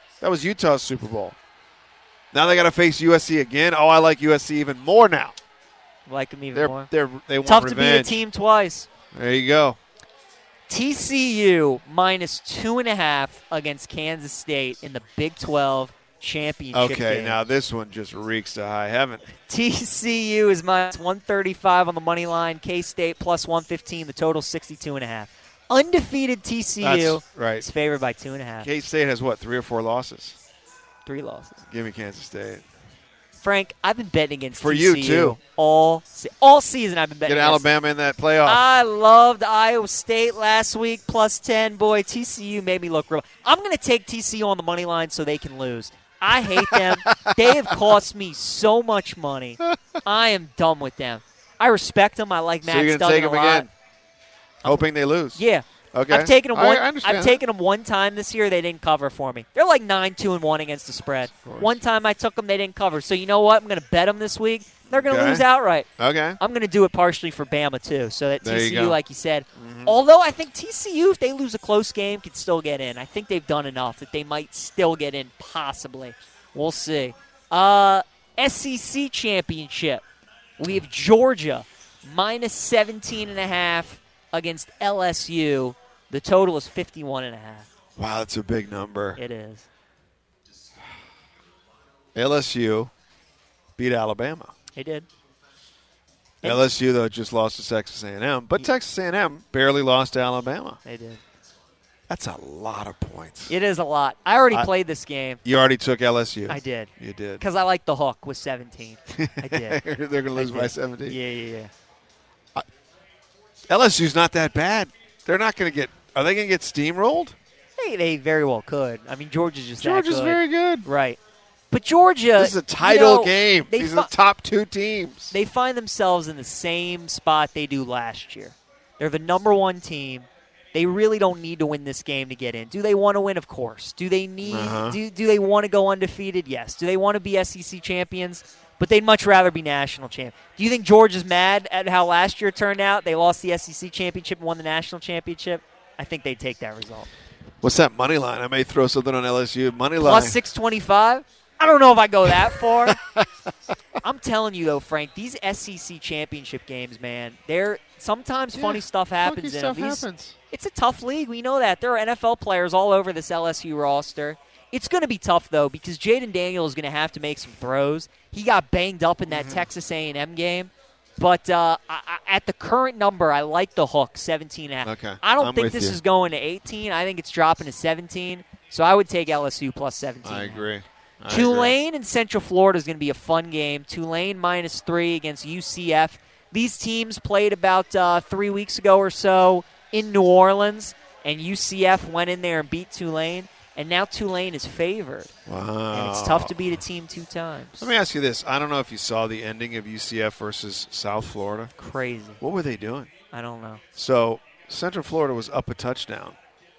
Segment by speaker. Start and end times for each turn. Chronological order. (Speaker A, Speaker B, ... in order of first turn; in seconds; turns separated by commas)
Speaker A: 0.2-1.4, Speaker A: 2.3-5.4, Speaker B: 6.1-6.9, Speaker A: 6.5-8.2, Speaker B: 7.4-8.9, Speaker A: 9.1-9.8, Speaker B: 10.7-17.4, Speaker A: 16.7-19.2, Speaker B: 19.5-28.7, Speaker A: 26.8-27.7, Speaker A: 28.6-30.4, Speaker B: 31.1-31.6, Speaker A: 31.7-32.6, Speaker B: 33.4-37.7, Speaker A: 34.5-35.4, Speaker A: 37.3-38.6, Speaker B: 38.4-53.7, Speaker A: 46.8-47.4, Speaker A: 49.7-50.0, Speaker A: 52.6-53.7, Speaker B: 54.6-65.9, Speaker A: 54.6-55.4, Speaker A: 55.9-57.4, Speaker A: 61.4-61.8, Speaker A: 64.9-65.5, Speaker A: 66.0-66.4, Speaker B: 66.4-80.0, Speaker A: 68.4-69.0, Speaker A: 69.6-70.0, Speaker B: 80.6-87.7, Speaker A: 88.0-89.2, Speaker B: 89.2-89.7, Speaker A: 92.2-92.9, Speaker A: 93.8-94.5, Speaker B: 94.7-95.1, Speaker A: 96.4-100.8, Speaker B: 100.8-101.2, Speaker A: 102.1-103.5, Speaker B: 103.5-105.4, Speaker A: 105.5-107.4, Speaker B: 106.5-109.8, Speaker A: 109.2-111.2, Speaker B: 110.3-111.7, Speaker A: 113.7-117.4, Speaker B: 117.8-121.2, Speaker A: 119.8-120.9, Speaker B: 121.7-124.1, Speaker A: 122.4-125.3, Speaker B: 125.3-147.1, Speaker A: 134.4-135.0, Speaker A: 147.6-150.4, Speaker B: 150.0-153.0, Speaker A: 152.9-153.2, Speaker B: 154.0-180.7, Speaker A: 158.6-160.3, Speaker A: 169.3-169.7, Speaker A: 174.8-176.0, Speaker A: 180.2-181.8, Speaker B: 181.3-195.3, Speaker A: 195.5-196.7, Speaker B: 195.9-197.9, Speaker A: 197.8-201.7, Speaker B: 201.8-202.4, Speaker A: 202.4-203.1, Speaker B: 203.3-203.8, Speaker A: 204.0-206.4